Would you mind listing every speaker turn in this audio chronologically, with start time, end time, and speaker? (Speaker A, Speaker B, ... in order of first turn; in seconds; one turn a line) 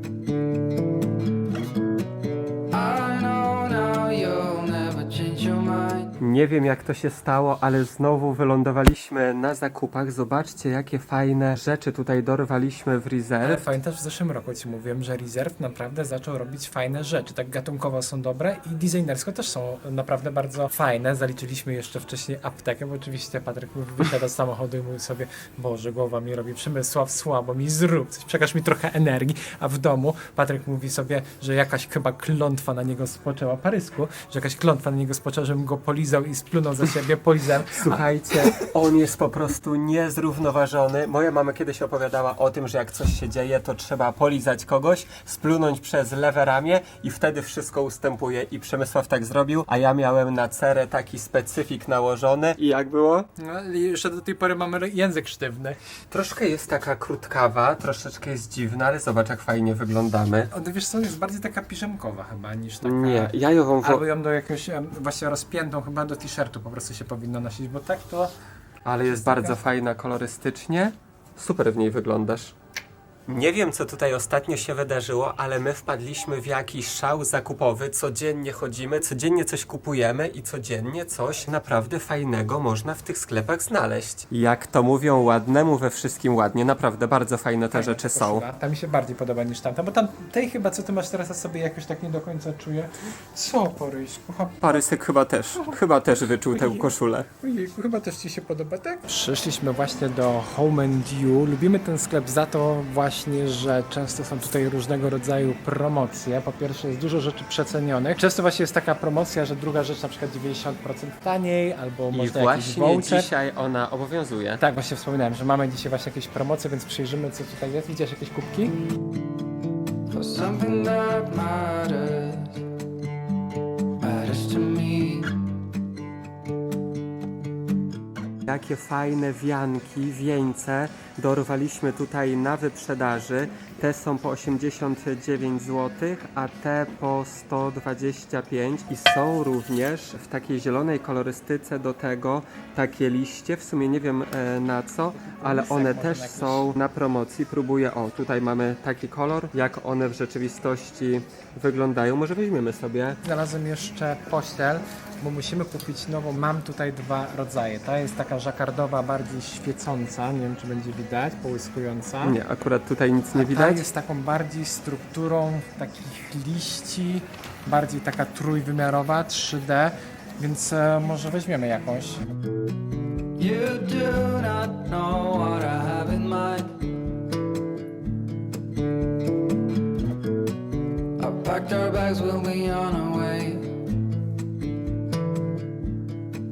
Speaker A: 2.7-6.1
Speaker B: 6.2-13.7
Speaker C: 13.4-38.5
Speaker B: 37.7-53.3
Speaker C: 53.4-55.8
Speaker B: 56.1-60.5
Speaker C: 60.5-68.3
Speaker B: 62.8-64.0
Speaker B: 68.8-72.5
Speaker C: 69.0-69.6
Speaker B: 73.3-88.5
Speaker C: 87.7-94.9
Speaker B: 94.6-97.3
Speaker C: 96.5-113.3
Speaker B: 112.1-114.6
Speaker C: 114.6-118.7
Speaker A: 120.1-122.6
Speaker A: 124.0-125.4
Speaker B: 128.4-153.2
Speaker C: 145.2-146.7
Speaker C: 153.2-162.4
Speaker B: 162.2-163.9
Speaker C: 163.3-172.2
Speaker A: 173.4-176.7
Speaker A: 181.2-183.7